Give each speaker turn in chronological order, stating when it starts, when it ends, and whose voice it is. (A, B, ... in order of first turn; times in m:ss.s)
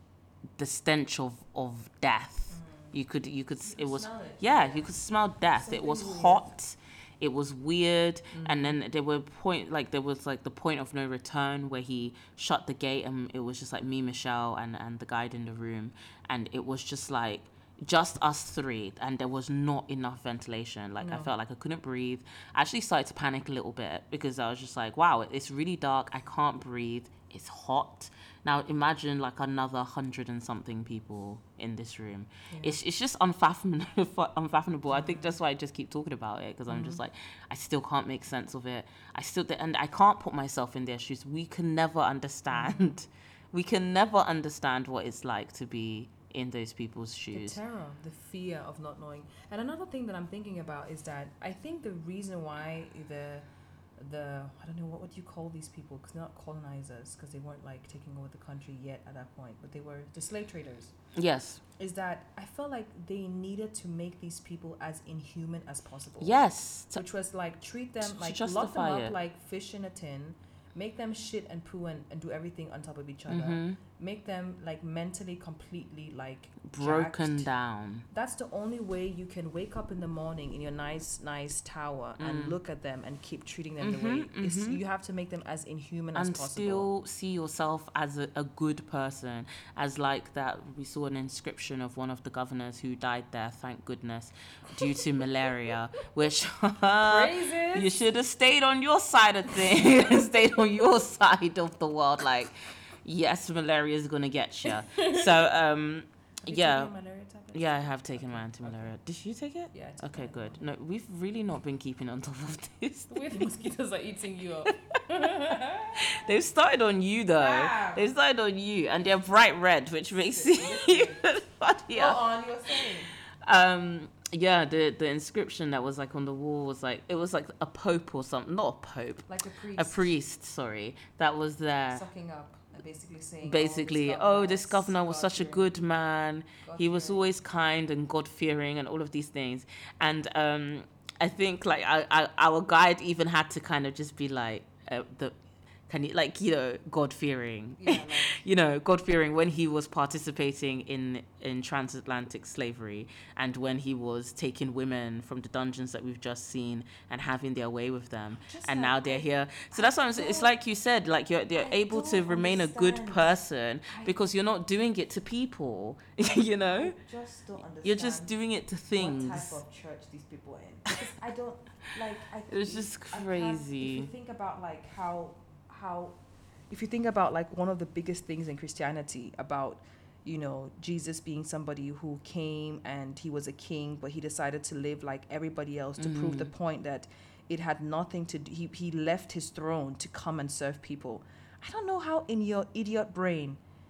0:00.6-0:47.6 A
0:02.5-0:02.9 B
0:03.6-0:04.9 B
0:05.6-0:06.5 B
0:08.3-0:08.8 B
0:21.0-0:21.3 B
0:34.9-0:35.4 B
0:36.7-0:37.0 B
0:42.5-0:43.0 B
0:47.3-0:53.5 B
0:54.0-1:00.9 B
1:01.2-1:01.6 A
1:01.8-1:06.4 B
1:06.2-1:07.0 A
1:07.0-1:17.5 B
1:08.0-1:09.1 A
1:13.3-1:13.8 A
1:16.7-1:18.1 A
1:18.1-1:26.9 B
1:22.2-1:22.6 A
1:23.8-1:24.8 A
1:26.2-1:46.9 A
1:37.1-1:38.0 B
1:44.7-1:45.3 B
1:46.5-1:49.0 B
1:47.5-1:53.7 A
1:49.7-1:50.6 B
1:53.1-1:56.2 B
1:56.0-2:02.2 A
1:57.4-1:58.1 B
2:00.2-2:01.2 B
2:01.9-2:03.1 B
2:03.4-2:12.0 A
2:09.3-2:10.1 B
2:11.9-2:15.7 B
2:13.4-2:25.4 A
2:16.6-2:17.3 B
2:25.9-2:47.0 A
2:27.8-2:28.4 B
2:38.5-2:40.5 B
2:41.6-2:43.4 B
2:43.9-2:44.2 B
2:46.8-2:48.3 B
2:47.8-2:49.6 A
2:48.9-2:56.2 B
2:52.5-2:54.1 A
2:56.7-3:13.6 B
3:06.0-3:06.5 A